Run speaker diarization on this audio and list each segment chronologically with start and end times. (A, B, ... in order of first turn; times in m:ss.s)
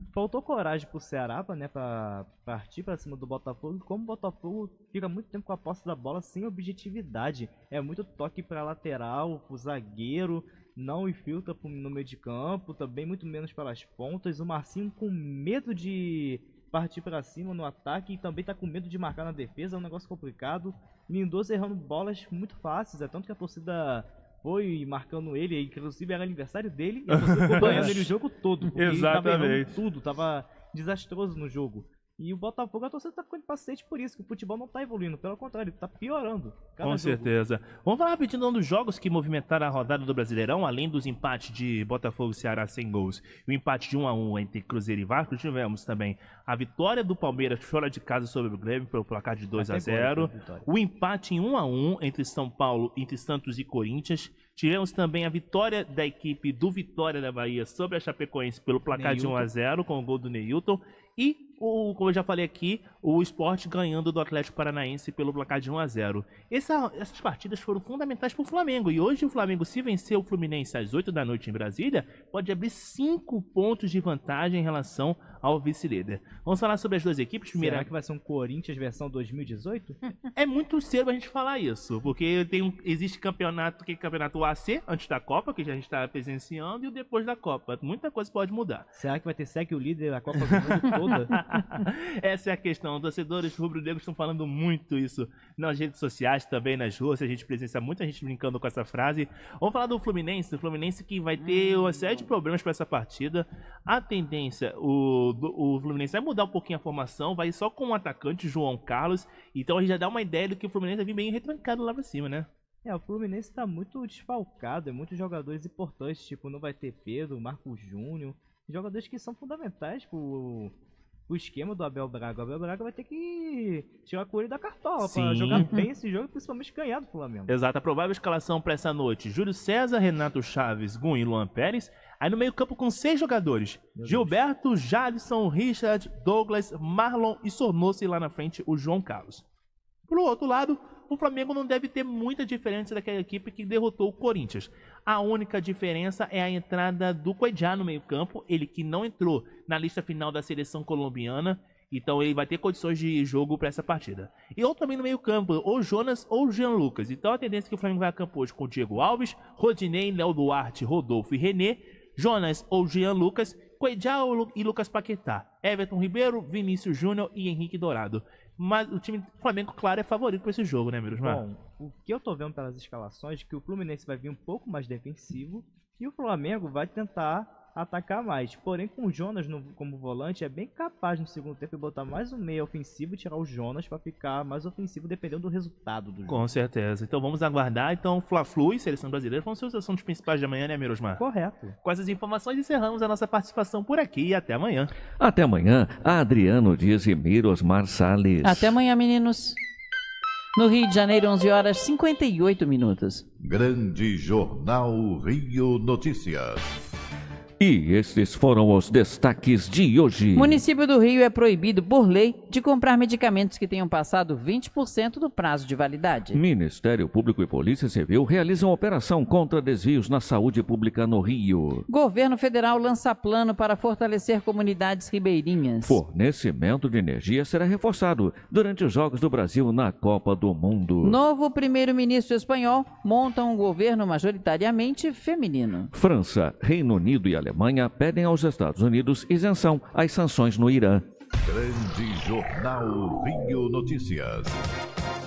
0:00.1-0:37.3 A
0:27.1-0:28.1 B
0:28.7-0:29.8 B
0:36.8-1:17.9 B
0:49.5-0:50.7 A
0:58.9-0:59.5 A
1:17.5-1:20.0 A
1:20.3-1:28.9 B
1:28.9-1:31.6 A
1:30.4-1:52.5 B
1:52.8-2:00.7 A
2:01.3-2:07.5 A
2:05.0-2:05.8 B
2:07.5-2:19.4 B
2:13.9-2:14.4 A
2:20.1-2:51.4 B
2:51.1-3:06.5 A
3:06.3-3:14.9 B
3:11.2-3:11.8 A
3:15.2-3:18.7 C
3:18.4-3:19.6 D
3:20.6-3:23.2 D
3:23.4-3:26.7 E
3:27.6-3:30.6 C
3:30.3-3:36.4 D
3:36.3-3:41.8 C
3:41.9-3:46.0 D
3:45.8-3:51.2 C
3:51.0-3:55.9 D
3:55.9-4:01.0 C
4:01.4-4:04.6 E